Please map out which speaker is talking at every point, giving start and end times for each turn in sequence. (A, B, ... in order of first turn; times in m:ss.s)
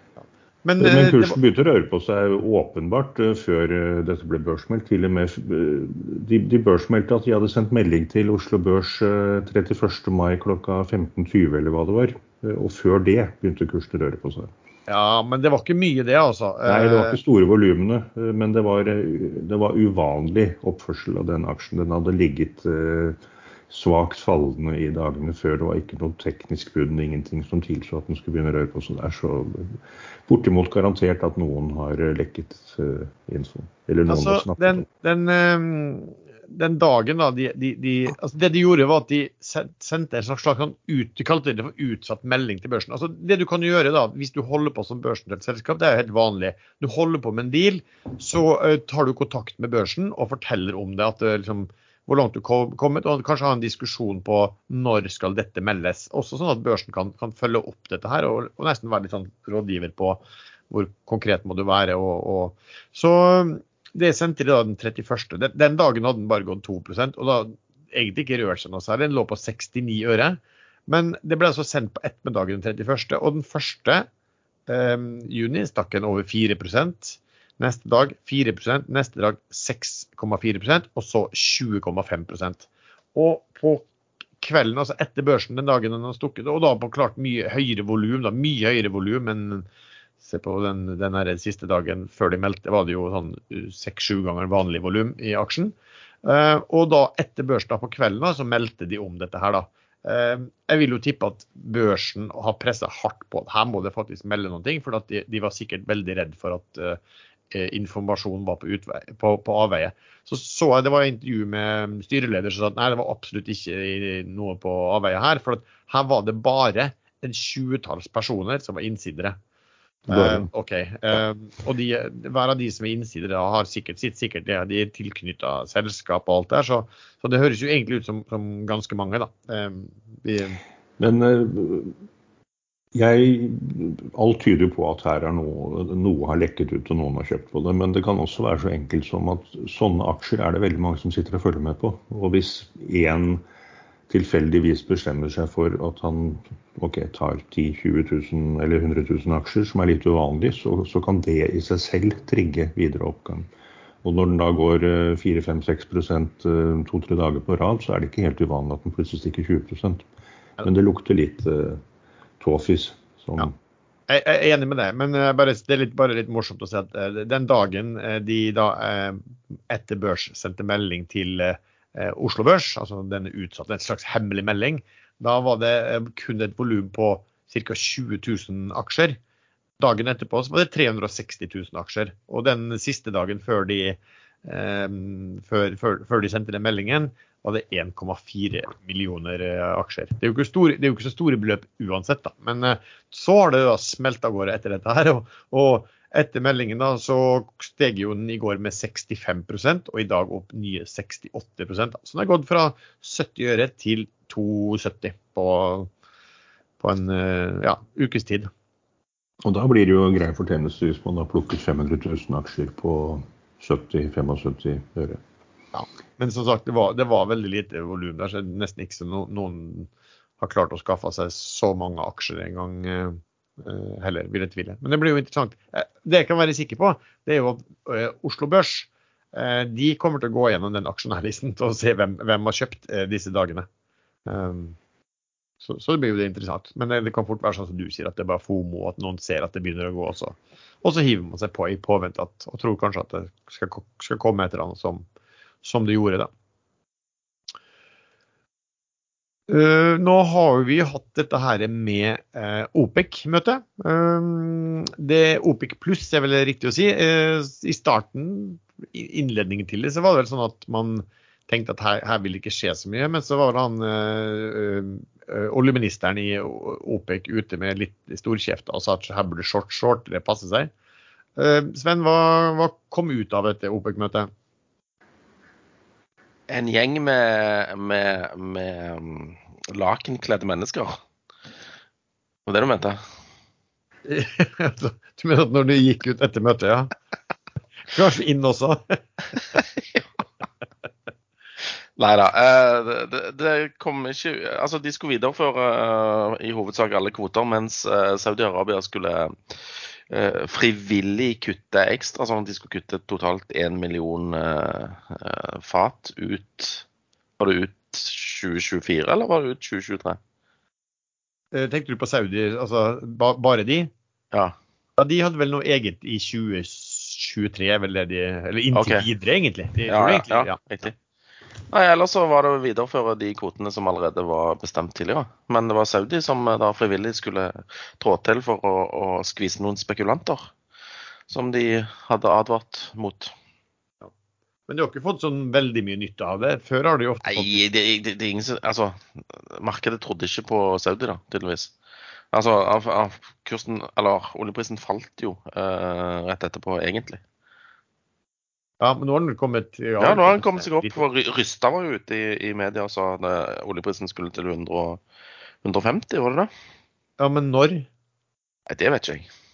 0:00.6-0:01.4 A
0:00.8-0:14.5 B
0:14.9-0:17.2 A
0:16.6-0:23.2 B
0:23.7-0:34.8 B
0:34.1-1:14.1 A
1:14.7-1:23.9 A
1:24.4-1:29.6 A
1:30.2-1:47.0 A
1:47.5-1:59.4 A
2:00.1-2:10.6 A
2:00.1-2:00.5 B
2:11.0-2:12.0 B
2:12.9-2:23.4 B
2:24.1-2:33.5 B
2:34.0-2:40.0 B
2:40.6-2:41.8 B
2:42.4-2:43.5 B
2:44.1-2:59.2 A
2:59.8-3:25.9 A
3:26.8-3:28.5 A
3:29.4-3:35.2 B
3:35.7-3:53.7 A
3:54.2-3:54.8 A
3:55.6-4:05.0 A
4:05.6-4:06.3 A
4:09.5-4:30.7 A
4:31.4-4:34.3 A
4:36.5-4:41.0 C
4:42.5-4:43.0 C
4:44.0-4:46.9 A
4:47.9-4:49.0 A
4:52.0-5:06.8 C
5:07.4-5:10.2 C
5:11.5-5:13.9 A
5:15.0-5:20.6 A
5:18.7-5:19.0 C
5:19.9-5:20.9 C
5:21.7-5:30.5 C
5:31.3-5:33.3 C
5:34.7-5:37.6 A
5:37.2-5:41.7 C
5:42.3-5:47.2 C
5:48.8-5:51.0 A
5:50.0-5:55.0 C
5:55.6-5:56.5 C
5:57.2-5:57.9 A
5:58.7-5:59.3 C